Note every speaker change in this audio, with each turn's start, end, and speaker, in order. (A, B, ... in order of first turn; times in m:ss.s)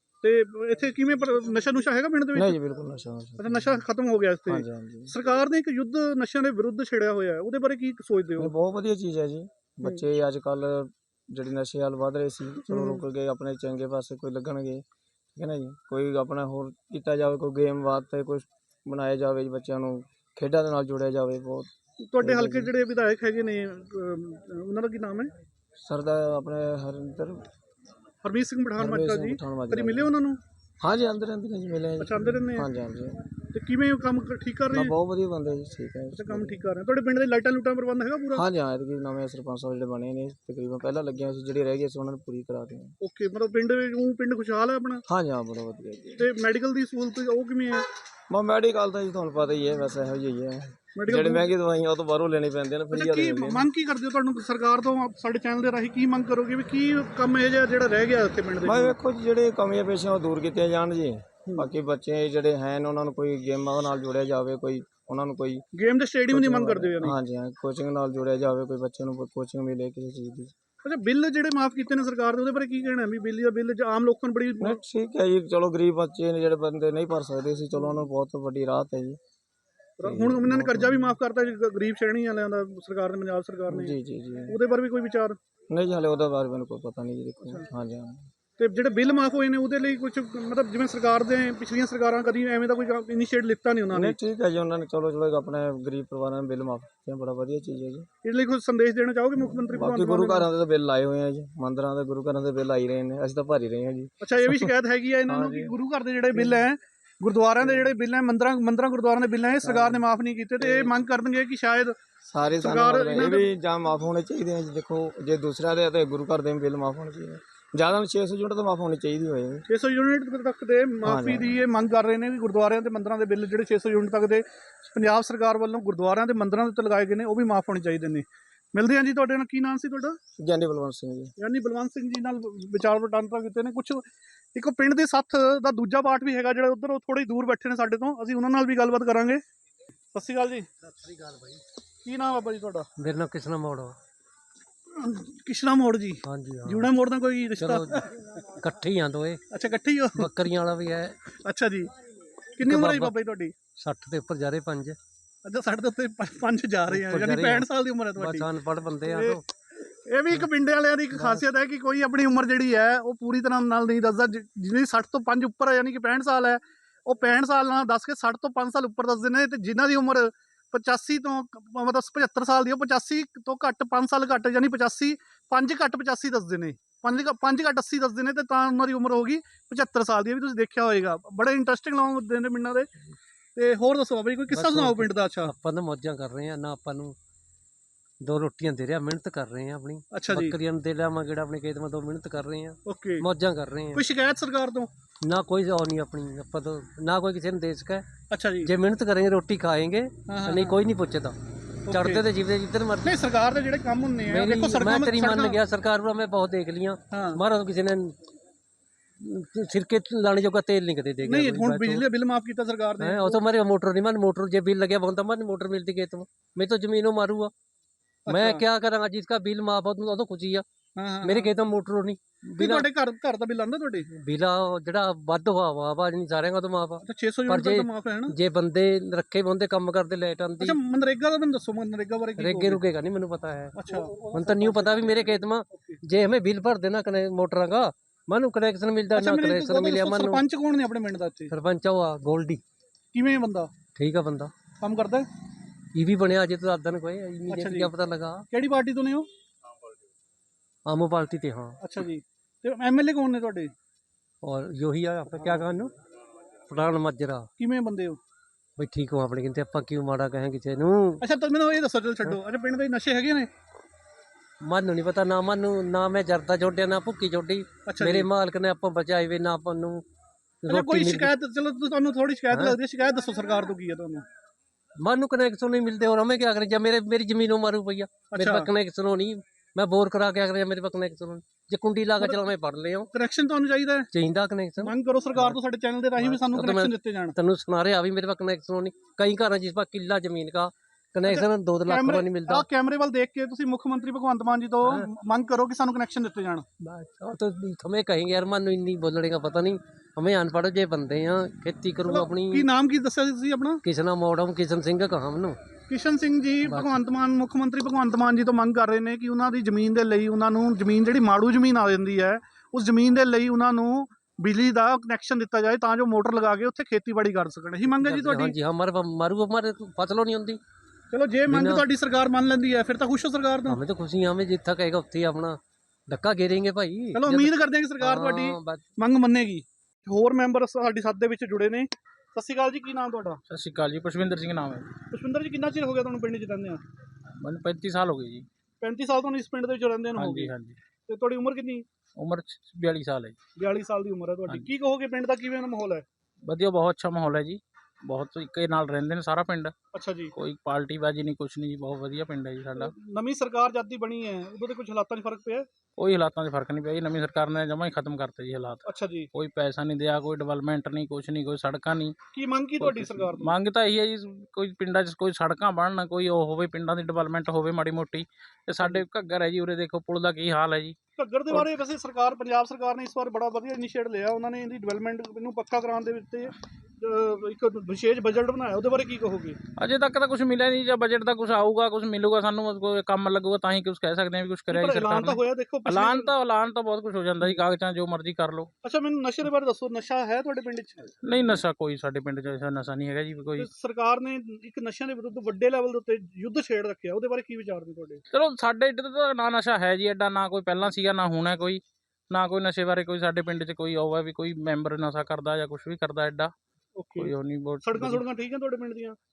0:00.2-0:02.6 A
0:02.3-0:03.8 B
0:03.4-0:08.5 A
0:04.4-0:05.2 B
0:08.4-0:14.8 B
0:12.7-0:13.0 A
0:15.4-0:22.8 B
0:22.0-0:25.3 A
0:25.8-0:27.4 B
0:28.2-0:30.4 A
0:28.8-0:30.2 B
0:30.8-0:33.2 B
0:32.0-0:32.7 A
0:33.5-0:34.9 A
0:34.7-0:36.7 B
0:36.2-0:38.5 A
0:38.3-0:43.0 B
0:43.0-0:45.0 A
0:45.1-0:46.3 B
0:46.2-0:47.8 A
0:48.3-0:53.7 B
0:51.0-0:51.5 A
0:52.9-0:59.0 A
0:58.6-1:05.6 B
1:05.8-1:07.2 A
1:06.3-1:10.5 B
1:10.8-1:14.8 A
1:14.6-1:19.2 B
1:20.0-1:24.0 A
1:20.0-1:21.2 B
1:23.7-1:24.6 B
1:24.5-1:25.4 A
1:25.7-1:28.3 B
1:28.6-1:34.2 A
1:33.9-1:38.1 B
1:38.2-1:40.5 A
1:39.4-1:46.7 B
1:44.2-1:52.0 A
1:47.6-1:47.9 B
1:49.6-1:51.0 B
1:52.3-1:59.7 B
1:52.6-1:53.5 A
1:59.7-2:10.2 A
2:01.0-2:01.6 B
2:10.4-2:11.3 B
2:11.4-2:19.4 A
2:20.2-2:20.7 A
2:22.0-2:22.9 A
2:23.0-2:24.0 C
2:25.0-2:28.0 A
2:26.3-2:26.9 C
2:27.6-2:29.4 C
2:29.5-2:30.3 A
2:30.2-2:31.2 C
2:31.4-2:31.9 A
2:32.6-2:33.5 A
2:32.6-2:33.2 C
2:33.8-2:35.0 C
2:35.4-2:38.5 A
2:36.9-2:39.4 C
2:39.1-2:39.4 A
2:40.1-3:02.9 A
2:41.1-2:41.5 C
3:03.6-3:05.5 A
3:04.5-3:07.2 C
3:08.2-3:14.0 C
3:10.1-3:10.5 A
3:12.9-3:13.2 A
3:14.0-3:14.9 A
3:15.3-3:18.1 C
3:18.3-3:18.7 A
3:18.6-3:21.4 C
3:20.3-3:20.8 A
3:21.9-3:22.2 A
3:21.9-3:23.2 C
3:23.0-3:25.6 A
3:24.3-3:28.2 C
3:27.1-3:27.4 A
3:29.2-3:32.1 C
3:31.2-3:33.4 A
3:33.0-3:37.5 C
3:38.3-3:38.6 A
3:38.3-3:40.6 C
3:41.0-3:41.5 A
3:41.2-3:42.9 C
3:42.6-3:44.1 A
3:44.2-3:50.8 C
3:47.0-3:48.4 A
3:50.6-3:52.8 A
3:52.4-4:00.4 C
3:53.8-3:56.0 A
3:59.1-4:01.5 A
4:01.5-4:02.6 C
4:03.1-4:03.7 A
4:04.0-4:04.5 C
4:04.8-4:05.3 A
4:06.0-4:08.5 C
4:07.5-4:07.9 A
4:08.5-4:09.3 A
4:10.9-4:11.8 C
4:11.8-4:13.7 A
4:14.4-4:15.9 C
4:16.7-4:17.5 C
4:17.6-4:18.2 A
4:18.8-4:21.2 C
4:21.2-4:23.5 A
4:24.6-4:30.0 C
4:27.9-4:28.3 A
4:30.6-4:31.3 C
4:30.7-4:34.2 A
4:32.5-4:32.8 C
4:35.0-4:43.1 C
4:38.3-4:38.7 A
4:43.1-4:44.1 A
4:44.1-4:45.6 C
4:44.8-4:47.3 A
4:46.2-4:52.7 C
4:51.3-4:56.6 A
4:56.8-5:02.7 C
5:02.1-5:03.8 A
5:03.8-5:05.6 C
5:05.9-5:18.5 A
5:06.6-5:07.0 C
5:17.9-5:20.6 C
5:21.1-5:23.8 A
5:21.5-5:21.8 C
5:23.7-5:28.8 C
5:27.2-5:33.4 A
5:33.5-5:34.9 D
5:35.1-5:36.8 A
5:37.4-5:38.5 D
5:38.8-5:40.5 A
5:40.1-5:40.8 D
5:41.1-5:41.8 A
5:42.2-5:43.4 D
5:43.6-5:46.0 A
5:46.5-5:49.7 D
5:49.9-5:50.3 A
5:50.4-5:52.9 D
5:52.8-5:55.7 A
5:56.0-6:02.2 D
5:58.9-5:59.3 A
6:02.3-6:03.5 A
6:02.8-6:11.0 D
6:11.2-6:19.6 A
6:11.5-6:11.8 D
6:19.8-6:28.7 D
6:24.7-6:26.3 A
6:28.8-6:31.1 A
6:31.2-6:33.7 D
6:33.6-6:38.2 A
6:38.3-6:46.5 D
6:47.0-6:47.3 A
6:47.2-6:48.3 D
6:47.8-6:49.2 A